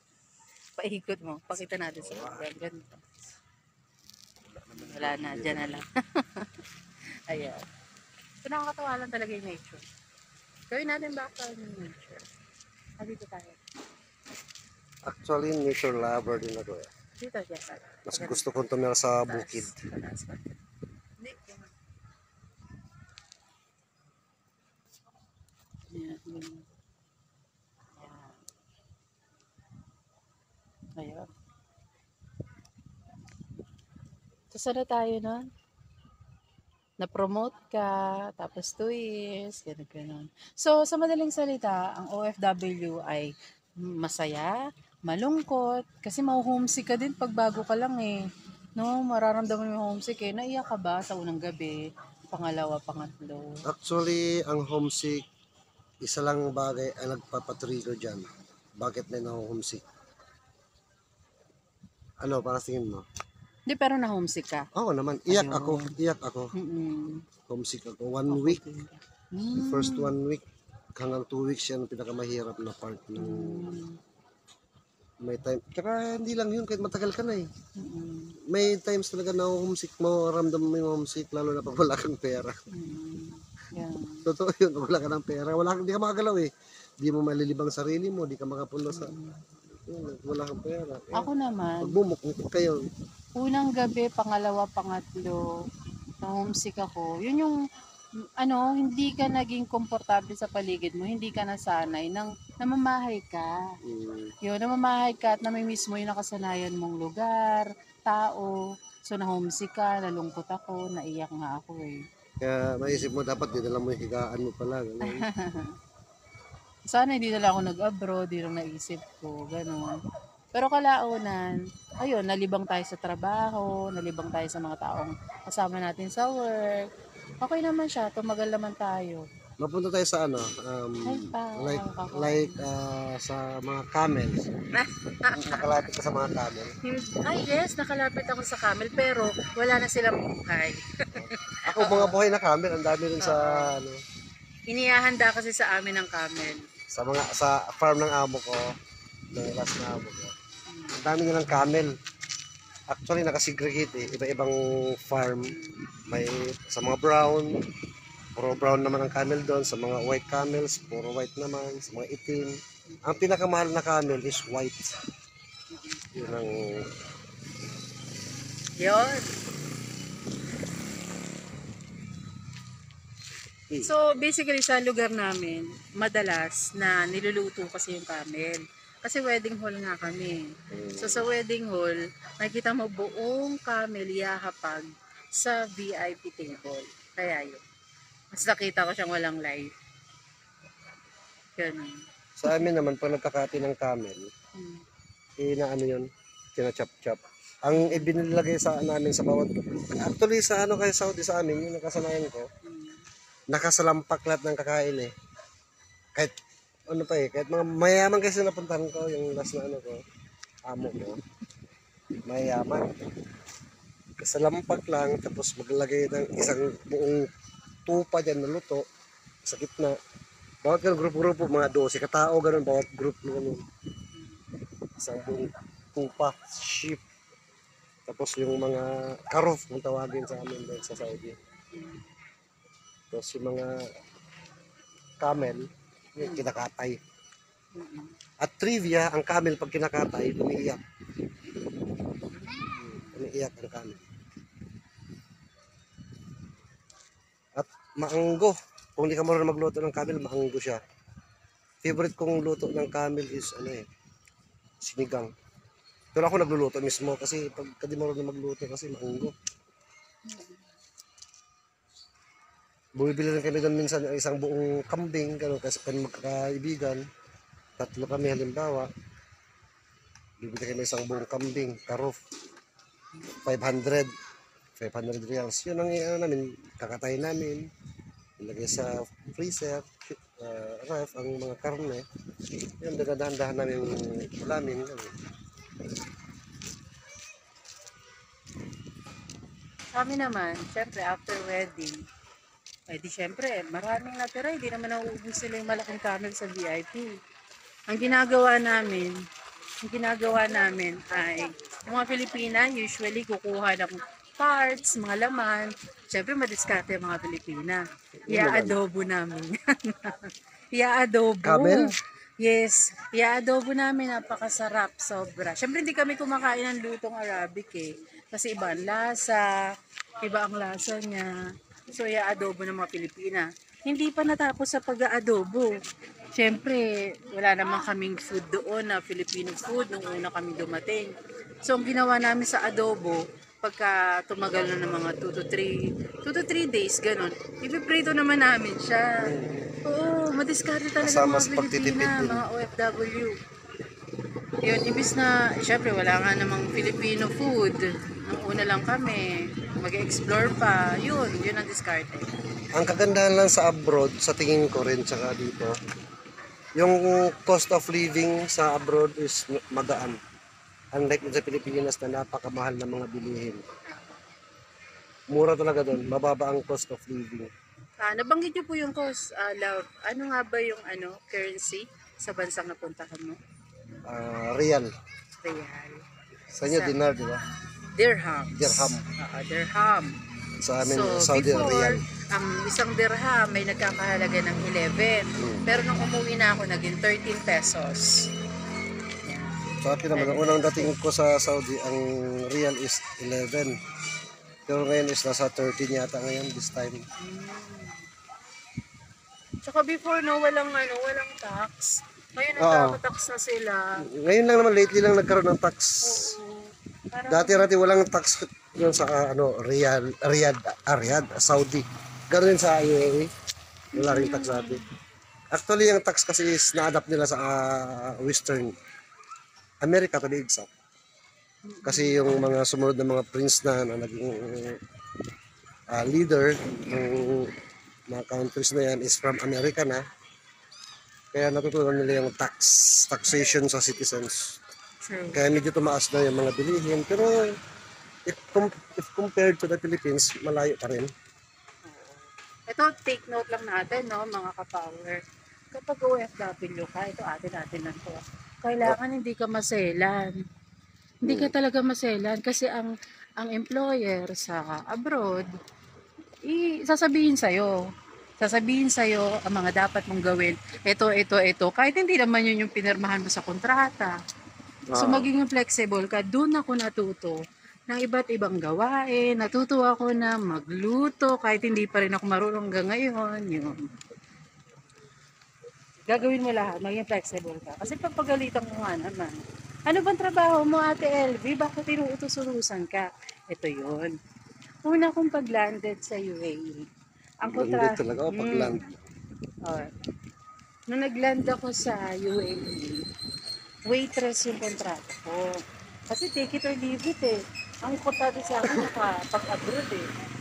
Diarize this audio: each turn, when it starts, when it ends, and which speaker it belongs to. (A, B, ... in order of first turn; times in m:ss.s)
0:00.8-0:03.1 A
0:02.0-0:02.5 B
0:04.5-0:05.8 B
0:04.8-0:07.7 A
0:08.4-0:09.8 A
0:10.7-0:12.3 A
0:13.0-0:13.6 A
0:15.1-0:16.9 B
0:17.2-0:18.5 A
0:18.1-0:19.7 B
0:19.2-0:20.6 A
0:21.2-0:21.7 A
0:25.9-0:26.6 A
0:28.0-0:28.4 A
0:31.0-0:31.3 A
0:34.5-0:35.5 A
0:37.0-0:48.2 A
0:48.8-0:53.6 A
0:53.6-0:55.2 B
0:56.0-0:58.3 B
0:58.8-0:59.8 B
1:02.2-1:03.1 B
1:03.7-1:04.7 A
1:04.7-1:06.5 B
1:05.3-1:06.0 A
1:06.5-1:07.3 A
1:07.5-1:08.6 B
1:08.3-1:10.1 A
1:09.6-1:10.4 B
1:11.0-1:13.7 B
1:13.2-1:14.0 A
1:15.2-1:17.5 B
1:17.8-1:18.4 A
1:18.4-1:22.6 B
1:22.7-1:24.3 A
1:24.2-1:29.1 B
1:28.9-1:29.5 A
1:29.9-1:31.3 B
1:31.1-1:32.0 A
1:31.8-1:32.9 B
1:33.4-1:35.5 A
1:36.2-1:37.6 A
1:38.2-1:43.8 A
1:43.8-1:44.3 B
1:44.4-1:52.1 A
1:52.4-1:55.2 B
1:55.0-1:55.8 A
1:56.9-2:00.0 A
2:00.5-2:09.3 A
2:09.6-2:14.5 B
2:11.0-2:12.7 A
2:14.7-2:15.9 A
2:15.3-2:16.7 B
2:16.8-2:22.2 A
2:21.2-2:24.0 B
2:23.2-2:23.8 A
2:24.7-2:26.6 A
2:26.9-2:28.7 B
2:29.3-2:30.3 B
2:30.7-2:31.0 A
2:30.9-2:31.9 B
2:32.9-2:35.6 B
2:35.4-2:35.8 A
2:36.1-2:37.6 B
2:38.4-2:44.9 B
2:45.7-2:46.1 A
2:46.1-2:46.9 B
2:48.8-2:49.3 A
2:53.8-3:07.6 A
3:00.7-3:01.3 B
3:08.3-3:09.7 A
3:11.6-3:12.7 A
3:12.4-3:14.3 B
3:14.6-3:14.8 A
3:15.4-3:22.5 B
3:17.7-3:18.1 A
3:22.6-3:23.0 A
3:23.5-3:25.1 B
3:26.9-3:30.0 B
3:30.7-3:31.2 B
3:32.3-3:32.9 B
3:34.2-3:37.3 B
3:37.9-3:38.9 B
3:39.5-3:40.0 B
3:40.6-3:43.6 B
3:44.1-3:44.4 A
3:45.0-3:47.0 B
3:48.1-3:51.4 B
3:51.7-3:52.1 A
3:53.1-3:53.8 B
3:55.2-3:57.0 B
3:56.2-3:56.5 A
3:57.7-3:58.2 A
3:58.4-4:00.8 B
4:02.3-4:03.2 A
4:02.8-4:04.1 B
4:07.6-4:10.8 B
4:11.8-4:13.8 B
4:14.8-4:15.3 B
4:16.2-4:19.3 B
4:20.2-4:20.6 A
4:23.0-4:27.0 B
4:27.8-4:28.9 B
4:30.4-4:32.2 B
4:33.4-4:34.1 B
4:34.8-4:37.7 B
4:38.4-4:42.0 B
4:42.8-4:45.1 B
4:49.9-4:52.0 A
4:52.9-4:57.2 A
4:57.9-4:59.2 A
4:59.8-5:19.4 A
5:08.2-5:08.8 B
5:11.4-5:11.9 B
5:20.2-5:21.3 A
5:21.9-5:25.8 A
5:26.4-5:39.2 A
5:39.2-5:39.7 B
5:39.8-5:43.4 A
5:41.0-5:42.4 B
5:44.6-5:52.3 A
5:52.7-5:55.8 B
5:56.8-6:00.2 B
6:01.0-6:03.7 B
6:03.9-6:04.2 A
6:05.3-6:07.5 B
6:08.0-6:13.4 A
6:14.1-6:14.9 B
6:15.4-6:17.0 A
6:16.6-6:17.4 B
6:17.9-6:20.2 A
6:18.5-6:19.1 B
6:20.6-6:22.0 B
6:20.8-6:28.3 A
6:25.4-6:25.7 B
6:29.2-6:29.6 A
6:29.8-6:33.8 B
6:30.1-6:30.9 A
6:34.7-6:37.0 B
6:37.2-6:38.1 A
6:39.6-6:43.8 A
6:42.6-6:43.0 B
6:44.0-6:46.4 B
6:46.0-6:47.7 A
6:47.3-6:53.3 B
6:54.0-6:54.8 B
6:54.0-6:54.8 A
6:55.5-6:58.7 B
6:59.8-7:00.7 B
7:01.7-7:02.6 A
7:01.8-7:04.8 B
7:05.9-7:07.5 B
7:08.1-7:10.0 B
7:11.3-7:14.5 B
7:15.0-7:15.4 A
7:15.3-7:17.5 B
7:18.3-7:21.1 B
7:21.8-7:30.4 A
7:31.2-7:31.5 B
7:31.2-7:35.5 A
7:36.4-7:37.8 A
7:38.4-7:44.1 A
7:44.9-7:45.3 B
7:45.0-7:53.9 A
7:56.1-8:04.2 A
8:04.8-8:06.9 A
8:07.4-8:08.9 A
8:07.5-8:09.0 B
8:09.6-8:09.9 A
8:10.9-8:13.0 A
8:13.9-8:15.6 A
8:16.1-8:20.1 A